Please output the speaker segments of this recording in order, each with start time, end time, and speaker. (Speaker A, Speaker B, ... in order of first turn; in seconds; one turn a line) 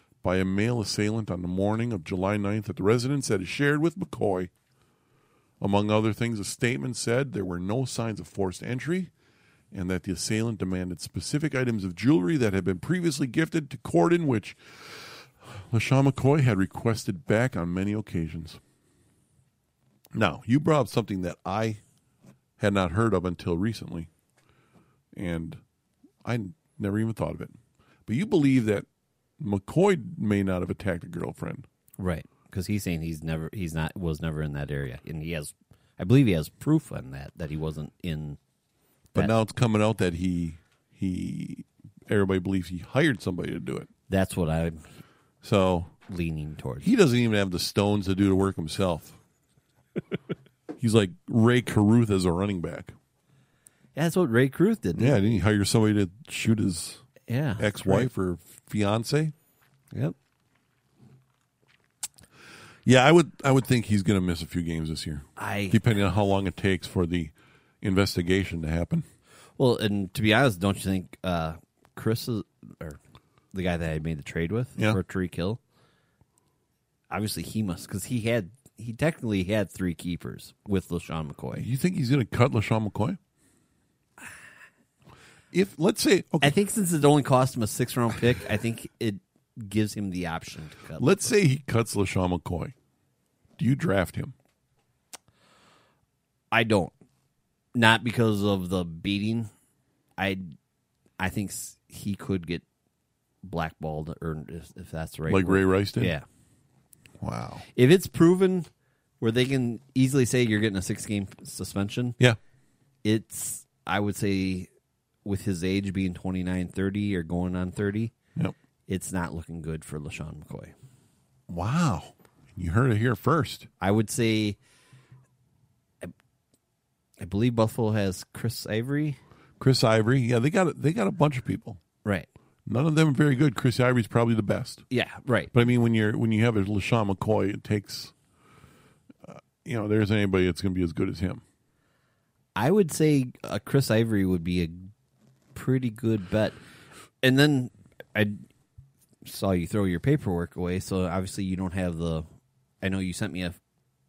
Speaker A: 0.2-4.5
Speaker A: 5.6-9.1
Speaker A: 9.7-18.6
Speaker A: 20.1-21.8
Speaker A: 22.6-24.1
Speaker A: 25.1-25.6
Speaker A: 26.2-28.9
Speaker A: 29.4-31.6
Speaker B: 32.0-38.4
Speaker A: 39.1-43.9
Speaker B: 44.1-44.9
Speaker A: 45.4-45.9
Speaker B: 46.1-46.9
Speaker A: 46.8-49.2
Speaker A: 50.8-52.9
Speaker B: 53.9-55.2
Speaker A: 55.0-57.0
Speaker B: 57.3-58.1
Speaker A: 57.6-59.3
Speaker A: 62.8-69.0
Speaker B: 65.4-65.8
Speaker B: 69.6-73.0
Speaker B: 73.5-75.6
Speaker B: 77.1-81.7
Speaker A: 81.5-83.2
Speaker A: 85.5-86.5
Speaker B: 86.4-91.3
Speaker A: 91.0-92.7
Speaker A: 93.6-94.3
Speaker B: 96.5-96.9
Speaker B: 97.7-99.5
Speaker B: 100.2-100.5
Speaker B: 101.2-102.6
Speaker B: 103.4-106.2
Speaker A: 105.3-106.2
Speaker A: 107.2-107.6
Speaker B: 107.7-108.7
Speaker B: 109.2-112.2
Speaker B: 113.0-114.7
Speaker B: 115.2-118.1
Speaker B: 118.9-120.7
Speaker A: 121.5-123.7
Speaker B: 123.8-124.6
Speaker B: 127.2-129.2
Speaker A: 129.6-131.8
Speaker A: 132.7-134.8
Speaker B: 134.9-135.5
Speaker A: 135.5-138.1
Speaker A: 139.2-141.4
Speaker B: 142.6-144.9
Speaker B: 145.5-146.6
Speaker B: 147.2-148.4
Speaker B: 149.2-152.2
Speaker B: 152.8-153.6